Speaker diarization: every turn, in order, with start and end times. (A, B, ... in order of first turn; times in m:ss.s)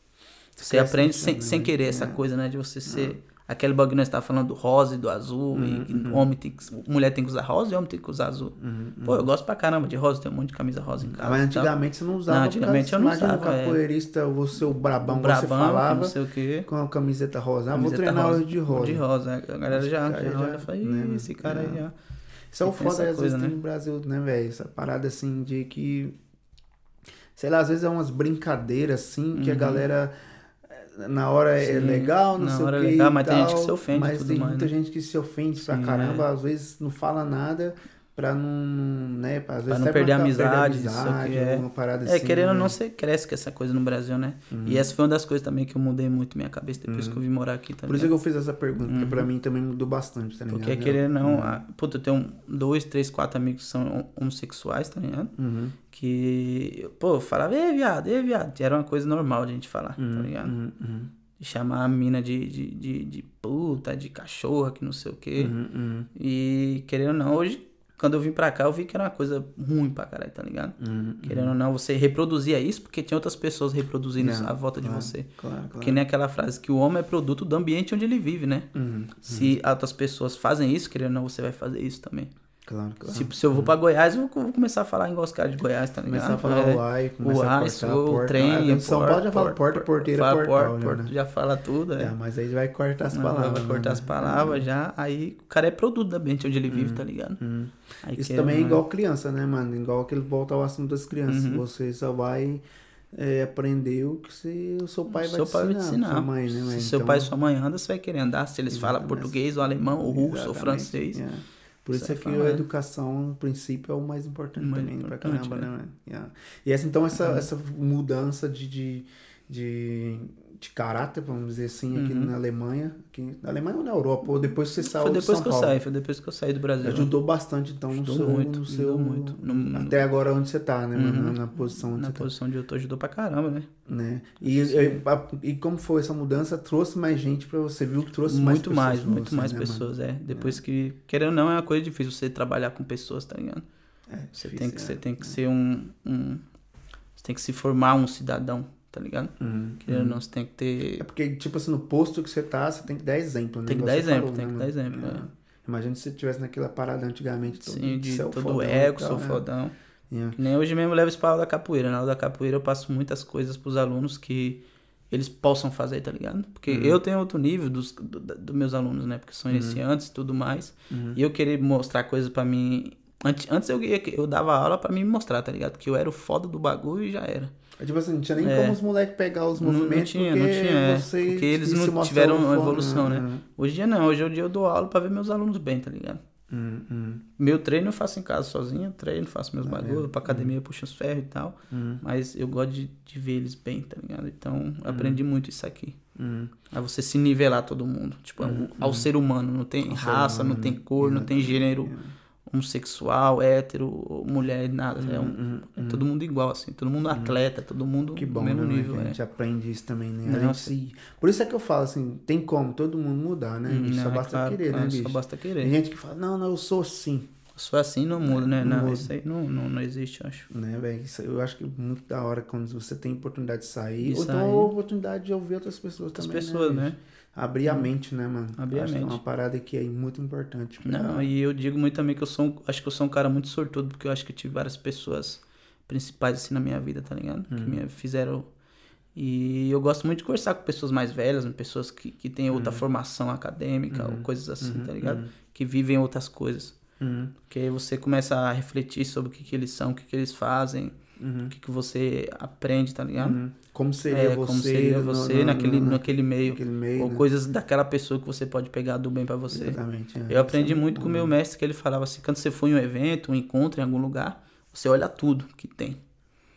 0:00.6-0:02.2 A
0:00.6-0:11.7 B
0:02.8-0:03.2 A
0:05.5-0:06.3 A
0:08.6-0:09.3 A
0:11.0-0:19.0 A
0:12.3-0:13.8 B
0:15.0-0:16.7 B
0:17.7-0:21.9 B
0:19.7-0:21.8 A
0:22.5-0:26.1 A
0:22.6-0:23.6 B
0:27.3-0:30.1 A
0:29.3-0:29.8 B
0:30.6-0:42.8 A
0:31.6-0:34.7 B
0:35.6-0:36.3 B
0:39.7-0:48.1 B
0:44.5-0:44.9 A
0:46.8-0:47.2 A
0:47.9-0:51.6 A
0:48.8-0:49.3 B
0:50.5-0:55.3 B
0:55.4-0:55.8 A
0:55.9-1:00.5 B
1:00.0-1:01.1 A
1:01.4-1:05.5 B
1:05.4-1:06.1 A
1:06.1-1:18.7 B
1:10.8-1:11.6 A
1:14.2-1:16.0 A
1:18.7-1:19.5 A
1:19.2-1:22.3 B
1:22.7-1:23.7 A
1:23.1-1:32.1 B
1:26.0-1:31.1 A
1:32.0-1:34.7 A
1:33.1-1:37.4 B
1:36.7-1:47.3 A
1:38.0-1:38.8 B
1:41.2-1:41.6 B
1:45.1-1:51.2 B
1:48.7-1:49.4 A
1:50.0-2:05.8 A
1:51.9-1:52.6 B
1:54.6-1:55.7 B
1:57.2-1:57.5 B
2:01.9-2:02.3 B
2:04.8-2:07.1 B
2:06.8-2:12.3 A
2:07.9-2:10.1 B
2:11.0-2:13.7 B
2:13.8-2:20.6 A
2:14.4-2:15.0 B
2:18.2-2:23.6 B
2:24.1-2:25.4 A
2:24.3-2:26.4 B
2:27.2-2:31.0 B
2:29.4-2:30.2 A
2:31.0-2:39.4 A
2:33.7-2:35.2 B
2:37.5-2:39.7 B
2:40.1-2:40.4 A
2:40.4-2:57.5 B
2:46.7-2:47.0 A
2:49.5-2:49.8 A
2:50.9-2:51.2 A
2:57.8-3:03.4 A
2:58.4-2:58.8 B
2:59.6-3:06.2 B
3:06.5-3:07.2 A
3:07.4-3:16.0 B
3:09.6-3:10.5 A
3:11.7-3:12.0 A
3:14.8-3:15.2 A
3:16.1-3:16.6 A
3:16.7-3:21.9 B
3:18.4-3:19.1 A
3:19.8-3:22.1 A
3:22.4-3:29.2 B
3:25.0-3:26.0 A
3:27.1-3:27.4 A
3:28.1-3:37.3 A
3:30.2-3:30.7 B
3:33.7-3:35.7 B
3:37.5-3:40.5 B
3:38.2-3:39.1 A
3:40.5-3:51.3 A
3:44.0-3:44.7 B
3:46.2-3:47.0 B
3:48.6-3:49.2 B
3:50.8-3:58.5 B
3:57.5-3:57.8 A
3:59.1-4:06.8 B
4:02.5-4:02.8 A
4:03.9-4:05.3 A
4:07.0-4:07.3 A
4:07.5-4:10.9 B
4:11.2-4:11.5 A
4:11.5-4:13.4 B
4:13.2-4:17.2 A
4:14.1-4:19.8 B
4:19.5-4:21.3 A
4:20.3-4:26.0 B